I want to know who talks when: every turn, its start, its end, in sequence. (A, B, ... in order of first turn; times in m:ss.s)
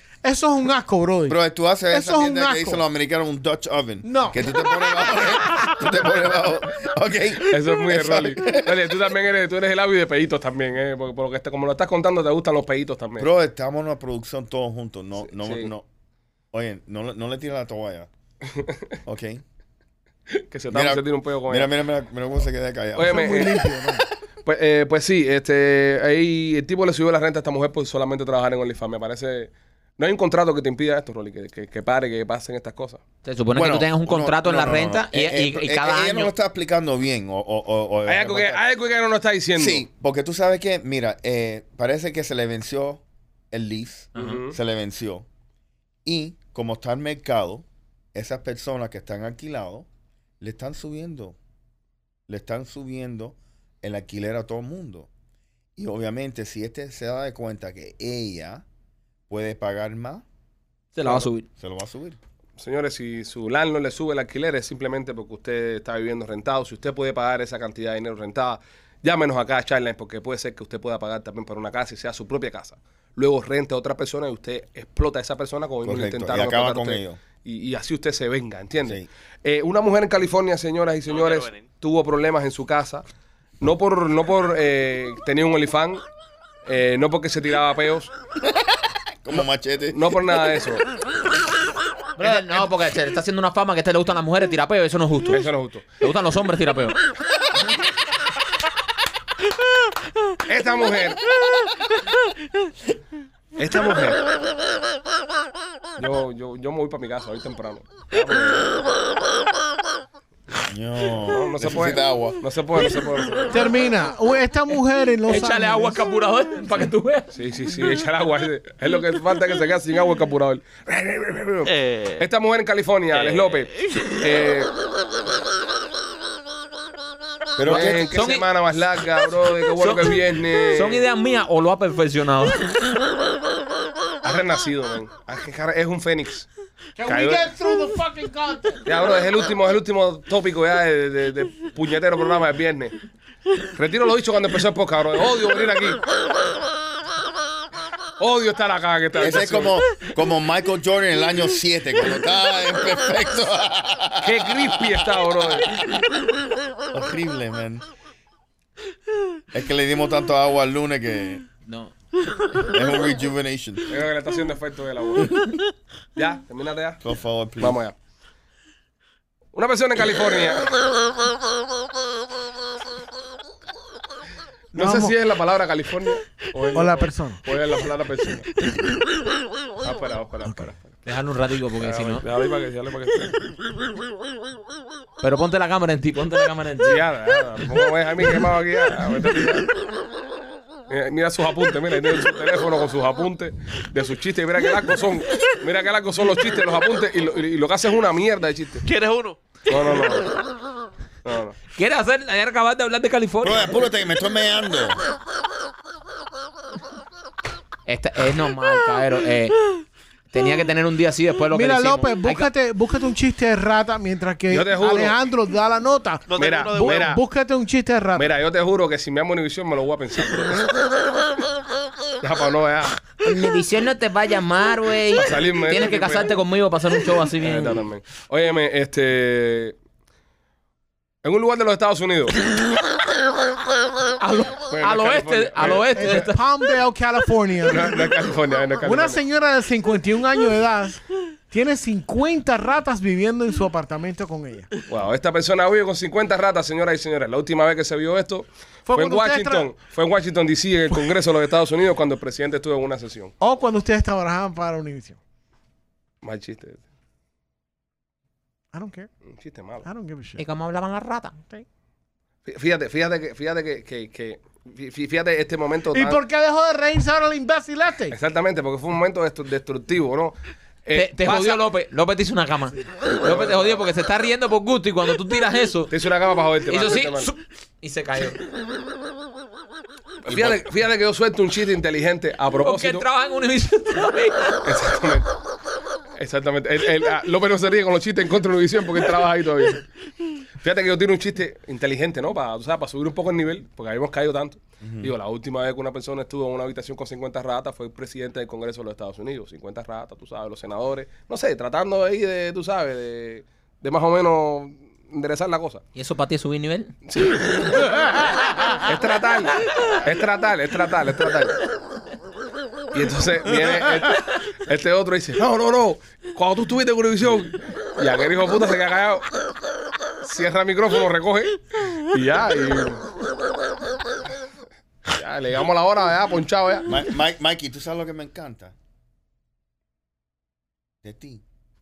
0:00.2-0:01.4 A
0:01.3-0:08.9 B
0:01.9-0:02.8 A
0:04.0-0:05.7 A
0:07.5-0:13.3 C
0:13.2-0:15.8 B
0:15.3-0:15.7 C
0:16.5-0:18.1 B
0:19.1-0:19.4 B
0:20.4-0:21.7 C
0:20.7-0:23.5 B
0:23.0-0:23.6 C
0:23.0-0:24.1 A
0:24.4-0:33.0 C
0:33.2-0:36.3 D
0:33.5-0:38.6 B
0:38.1-0:39.8 C
0:39.6-0:45.3 B
0:44.1-0:44.6 C
0:46.0-0:49.9 B
0:50.4-0:51.4 B
0:52.3-0:55.1 B
0:55.8-0:58.6 B
0:59.3-1:00.2 B
1:00.9-1:01.5 D
1:01.5-1:02.2 B
1:02.6-1:23.0 C
1:15.8-1:17.2 B
1:21.1-1:21.7 E
1:23.6-1:26.0 C
1:26.6-1:28.1 C
1:29.2-1:30.0 B
1:29.9-1:30.9 C
1:32.2-1:35.5 D
1:32.2-1:32.5 C
1:35.3-1:35.9 C
1:36.0-1:37.0 D
1:40.5-1:41.2 C
1:43.6-1:44.2 C
1:46.0-1:48.7 C
1:50.6-1:52.4 B
1:51.3-1:53.7 C
1:53.5-1:56.0 A
1:55.3-1:57.4 D
1:57.3-2:04.7 C
2:01.7-2:02.2 E
2:03.1-2:04.1 E
2:07.6-2:08.1 B
2:07.6-2:11.0 C
2:07.7-2:08.5 D
2:09.8-2:10.1 D
2:10.7-2:12.8 D
2:14.2-2:16.5 C
2:17.0-2:18.8 A
2:17.0-2:17.5 C
2:18.9-2:23.0 C
2:23.7-2:26.0 C
2:28.2-2:29.8 C
2:29.2-2:35.0 B
2:34.2-2:35.7 C
2:36.9-2:37.8 B
2:39.5-2:41.4 B
2:41.6-2:41.9 D
2:42.6-2:43.9 B
2:43.9-2:45.5 C
2:46.2-2:47.0 C
2:47.0-2:47.8 B
2:47.6-2:48.0 C
2:49.5-2:50.7 C
2:54.7-2:58.6 C
2:54.8-2:55.2 A
2:56.7-2:57.4 A
2:59.8-3:00.9 C
3:00.4-3:00.7 A
3:01.1-3:02.3 D
3:01.8-3:03.5 C
3:05.2-3:07.0 D
3:06.8-3:09.7 C
3:10.9-3:18.8 C
3:18.8-3:19.6 E
3:19.7-3:20.3 C
3:21.2-3:21.6 C
3:21.8-3:23.8 D
3:23.4-3:25.0 B
3:27.9-3:29.6 D
3:30.3-3:32.5 D
3:31.5-3:38.3 A
3:34.5-3:35.2 C
3:36.3-3:37.2 E
3:36.4-3:37.2 C
3:38.2-3:40.7 C
3:42.2-3:43.0 C
3:43.2-3:47.9 D
3:45.1-3:46.4 C
3:47.4-3:49.8 C
3:51.2-3:52.4 C
3:54.2-3:56.4 D
3:54.7-3:56.3 C
3:55.9-3:58.1 A
3:57.6-3:59.2 C
3:58.8-4:04.7 A
4:04.9-4:13.3 C
4:08.9-4:09.7 A
4:13.4-4:15.2 A
4:16.2-4:16.8 C
4:18.7-4:19.1 A
4:19.3-4:19.9 C
4:19.8-4:20.4 A
4:20.4-4:21.4 D
4:21.4-4:21.6 A
4:22.4-4:26.2 C
4:25.9-4:28.2 A
4:28.1-4:31.6 C
4:30.9-4:35.9 D
4:33.1-4:33.8 C
4:35.9-4:37.3 C
4:36.7-4:38.4 D
4:40.3-4:43.0 C
4:40.3-4:40.6 B
4:42.6-4:44.6 D
4:44.6-4:45.3 C
4:46.2-4:49.8 C
4:50.6-5:05.8 C
4:54.8-4:55.1 B
5:06.0-5:06.9 D
5:07.1-5:08.0 C
5:08.8-5:11.6 C
5:12.9-5:19.3 C
5:20.2-5:23.0 C
5:25.1-5:26.9 C
5:26.8-5:28.7 B
5:31.0-5:31.4 B